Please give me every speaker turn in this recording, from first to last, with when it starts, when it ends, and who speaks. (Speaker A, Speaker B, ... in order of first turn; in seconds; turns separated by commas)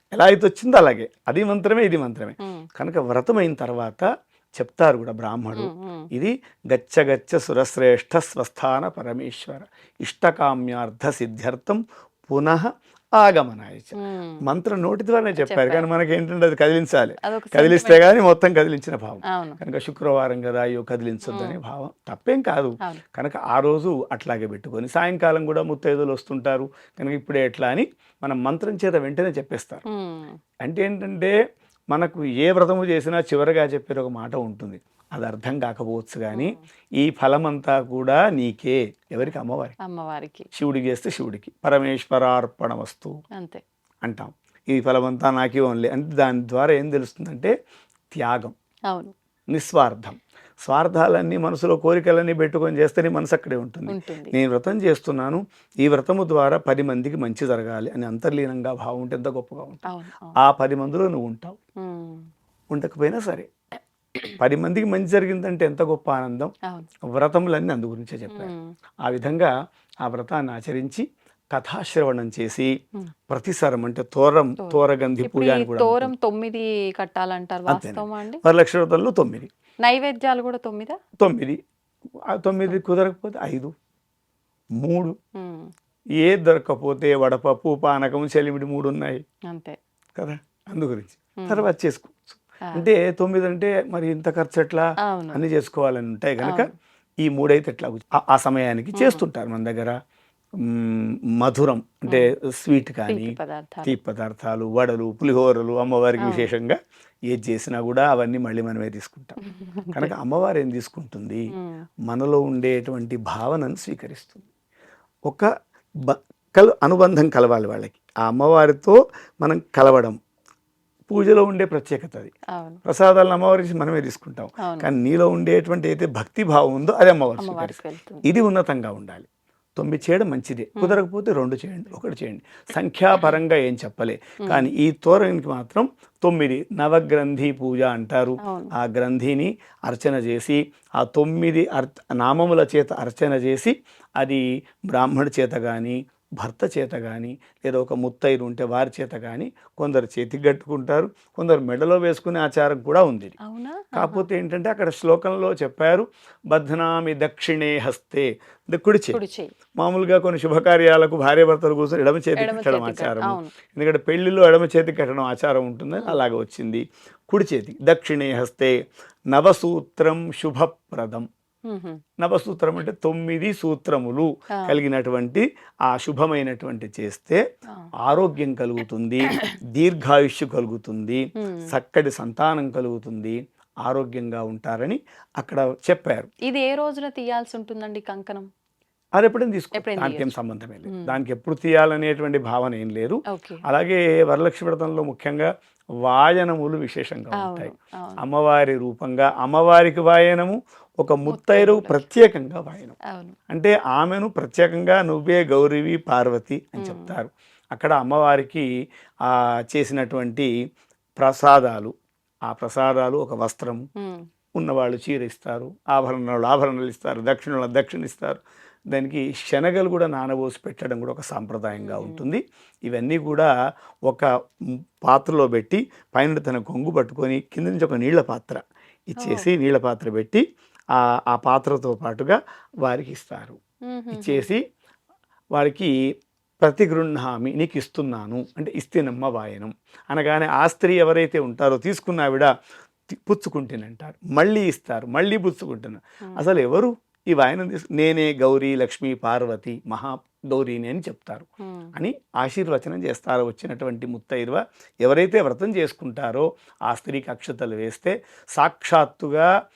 Speaker A: 0.1-29.8, Speaker B: 5.5-6.1, Speaker B: 14.0-14.4, Speaker B: 15.4-15.9, Speaker B: 17.2-18.0, Speaker B: 19.2-19.6, Speaker B: 21.2-21.6, Speaker B: 29.9-30.4, Speaker A: 30.6-31.3, Speaker A: 31.9-39.8, Speaker B: 36.3-36.6, Speaker B: 39.2-40.5, Speaker A: 40.5-43.2, Speaker B: 43.4-43.6, Speaker A: 44.0-47.5, Speaker A: 48.1-48.5, Speaker B: 48.9-49.1, Speaker A: 49.5-59.9, Speaker B: 53.9-54.3, Speaker B: 59.9-60.4, Speaker A: 60.4-61.6, Speaker B: 61.8-62.2, Speaker A: 62.7-63.5, Speaker A: 64.4-66.5, Speaker A: 67.1-68.5, Speaker B: 68.3-68.7, Speaker A: 69.1-69.5, Speaker A: 70.0-72.7, Speaker A: 73.3-76.1, Speaker B: 74.6-78.4, Speaker A: 77.7-79.5, Speaker B: 79.8-81.0, Speaker A: 81.2-81.6, Speaker A: 82.3-83.7, Speaker A: 84.8-85.1, Speaker B: 85.4-85.7, Speaker A: 86.2-89.2, Speaker B: 89.5-89.8, Speaker A: 90.2-96.7, Speaker B: 91.4-91.7, Speaker B: 95.1-95.4, Speaker B: 96.4-96.7, Speaker A: 97.2-100.0, Speaker B: 98.9-99.2, Speaker A: 100.6-106.8, Speaker B: 103.1-104.0, Speaker B: 106.2-106.5, Speaker A: 107.3-109.4, Speaker B: 109.4-110.1, Speaker A: 109.9-111.5, Speaker B: 111.5-111.8, Speaker A: 112.1-114.5, Speaker A: 116.0-120.2, Speaker A: 121.1-122.3, Speaker B: 122.5-122.8, Speaker A: 122.9-129.2, Speaker B: 124.6-124.9, Speaker B: 127.4-128.2, Speaker A: 129.8-153.4, Speaker B: 134.4-134.7, Speaker B: 138.4-138.7, Speaker B: 153.4-154.3, Speaker A: 153.9-159.2, Speaker B: 159.1-159.5, Speaker A: 159.8-168.7, Speaker B: 162.4-163.5, Speaker A: 169.3-171.3, Speaker B: 171.7-172.0, Speaker A: 172.2-177.4, Speaker A: 178.1-186.3, Speaker B: 181.4-181.7, Speaker B: 186.5-188.5, Speaker A: 189.2-195.5, Speaker B: 189.8-190.3, Speaker B: 190.9-191.2, Speaker B: 193.3-193.6, Speaker A: 196.1-202.9, Speaker B: 197.4-198.2, Speaker B: 201.3-202.1, Speaker B: 203.1-203.3, Speaker A: 203.5-208.7, Speaker B: 206.8-207.2, Speaker A: 209.2-210.5, Speaker A: 211.2-211.9, Speaker A: 212.5-213.9, Speaker B: 214.0-214.2, Speaker A: 214.6-218.4, Speaker A: 218.9-223.5, Speaker B: 221.7-222.2, Speaker A: 224.1-230.4, Speaker B: 229.2-229.5, Speaker A: 231.0-233.6, Speaker B: 233.9-234.5, Speaker A: 234.1-234.6, Speaker A: 235.5-235.9, Speaker A: 236.6-242.5, Speaker A: 243.1-259.5, Speaker B: 251.6-251.9